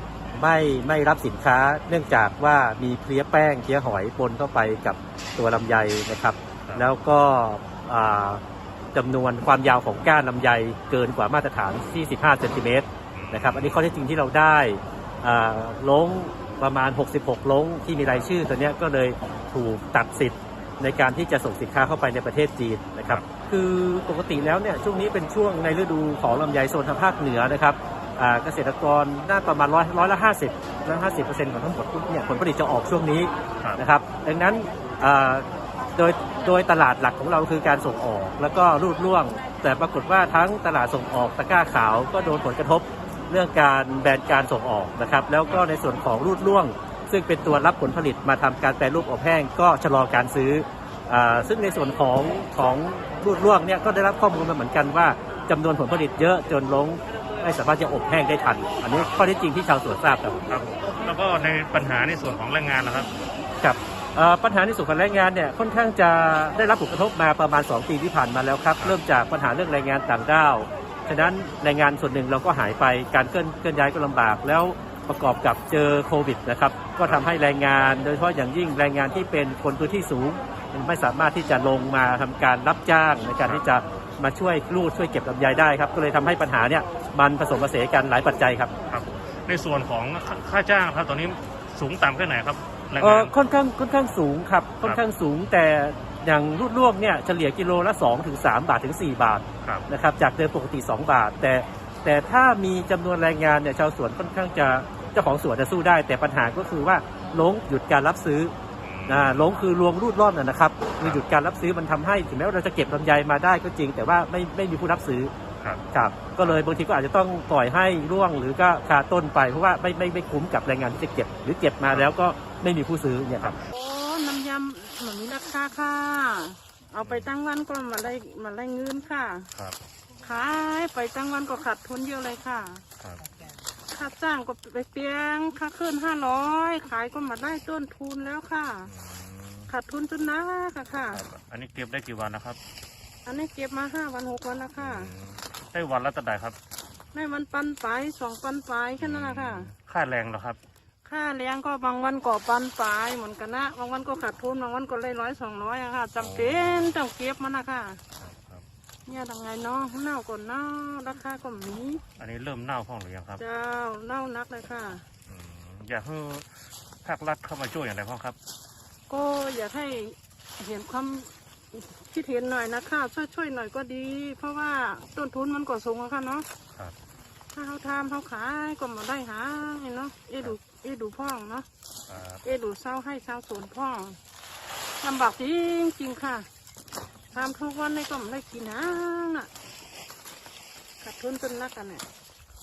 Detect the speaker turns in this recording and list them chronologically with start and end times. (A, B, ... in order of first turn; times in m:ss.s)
0:00.3-0:08.4 A
0:08.9-1:00.4 A
0:13.1-0:13.8 B
0:58.9-0:59.2 B
1:00.5-1:03.1 B
1:03.6-1:28.7 A
1:28.9-1:33.3 B
1:33.0-1:48.5 A
1:48.8-1:49.5 B
1:49.1-1:55.3 A
1:55.9-2:03.6 A
2:03.7-2:09.5 C
2:07.0-2:07.3 B
2:10.2-2:12.8 C
2:13.0-2:13.2 B
2:13.9-2:18.9 C
2:18.8-2:19.7 B
2:19.7-2:21.2 C
2:21.1-2:22.6 B
2:23.2-2:25.1 C
2:24.8-2:26.6 B
2:27.1-2:29.7 C
2:29.0-2:30.6 B
2:31.0-2:38.0 C
2:36.2-2:37.0 B
2:38.2-2:38.6 B
2:39.1-2:42.0 C
2:42.2-2:43.4 B
2:43.4-2:45.0 C
2:45.3-2:48.4 B
2:49.1-2:56.5 C
2:57.5-3:01.7 C
3:02.1-3:02.4 B
3:02.4-3:04.2 C
3:05.0-3:06.5 C
3:07.3-3:09.5 C
3:11.0-3:12.0 C